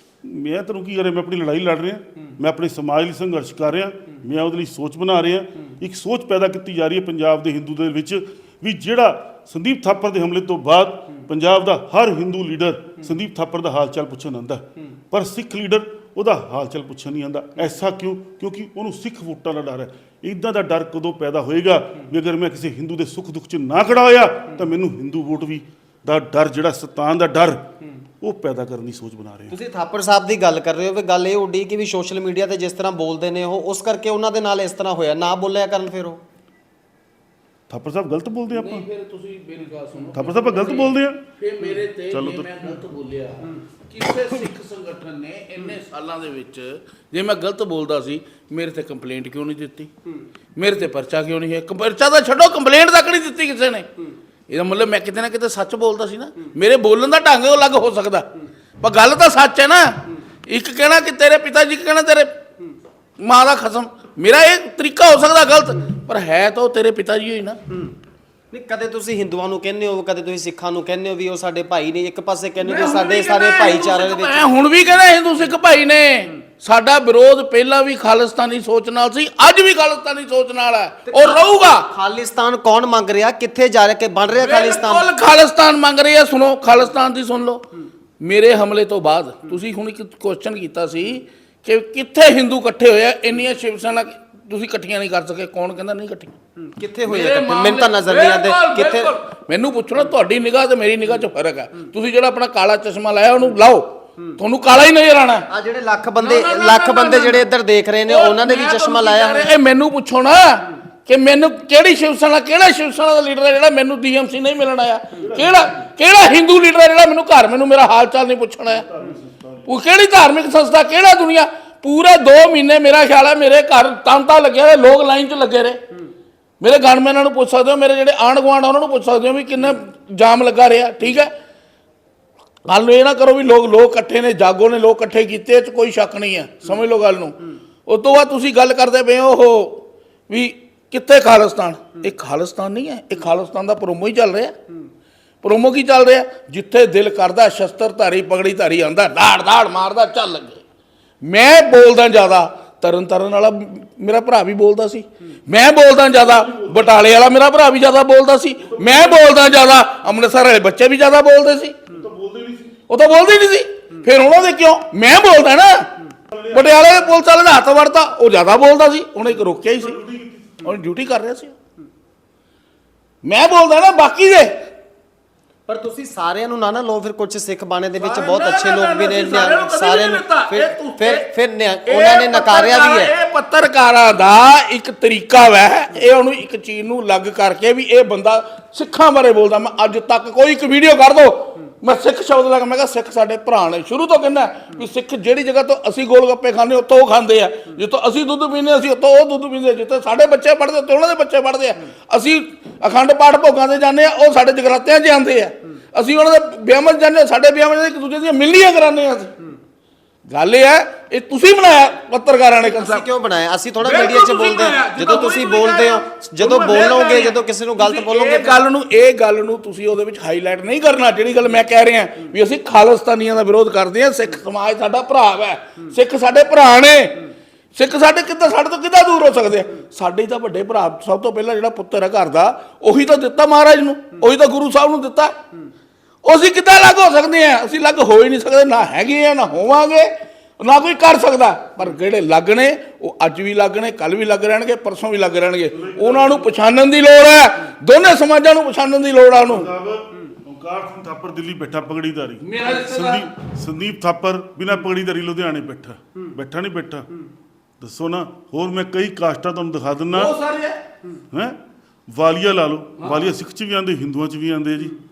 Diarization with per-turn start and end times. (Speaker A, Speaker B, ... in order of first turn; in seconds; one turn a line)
Speaker A: 0.2-27.7
Speaker A: 28.2-29.6
Speaker B: 29.5-36.2
Speaker A: 37.7-38.9
Speaker C: 38.5-49.9
Speaker A: 40.2-41.2
Speaker A: 42.1-42.5
Speaker C: 50.6-53.9
Speaker C: 54.5-58.3
Speaker C: 58.8-62.4
Speaker C: 63.2-67.6
Speaker B: 68.5-74.5
Speaker C: 72.6-81.9
Speaker B: 81.1-85.1
Speaker C: 84.3-87.7
Speaker C: 88.2-96.3
Speaker B: 96.6-99.1
Speaker C: 97.1-105.5
Speaker B: 105.5-109.5
Speaker C: 106.2-107.5
Speaker C: 108.1-118.9
Speaker A: 115.2-115.8
Speaker A: 118.7-119.7
Speaker C: 119.7-125.8
Speaker C: 126.6-131.3
Speaker C: 132.7-144.6
Speaker C: 145.4-150.6
Speaker C: 151.2-161.8
Speaker A: 156.2-157.1
Speaker A: 158.6-159.5
Speaker A: 161.9-162.8
Speaker C: 162.9-166.0
Speaker A: 166.3-167.2
Speaker C: 166.5-170.0
Speaker A: 169.7-170.7
Speaker C: 170.6-171.6
Speaker C: 173.2-174.7
Speaker B: 175.7-183.1
Speaker C: 178.0-181.3
Speaker C: 181.9-209.3
Speaker C: 210.3-213.1
Speaker B: 212.6-218.6
Speaker C: 213.8-235.4
Speaker C: 236.2-249.7
Speaker A: 245.7-246.5
Speaker A: 249.4-257.1
Speaker C: 252.4-253.3
Speaker A: 257.8-260.4
Speaker C: 260.1-260.8
Speaker A: 261.3-265.0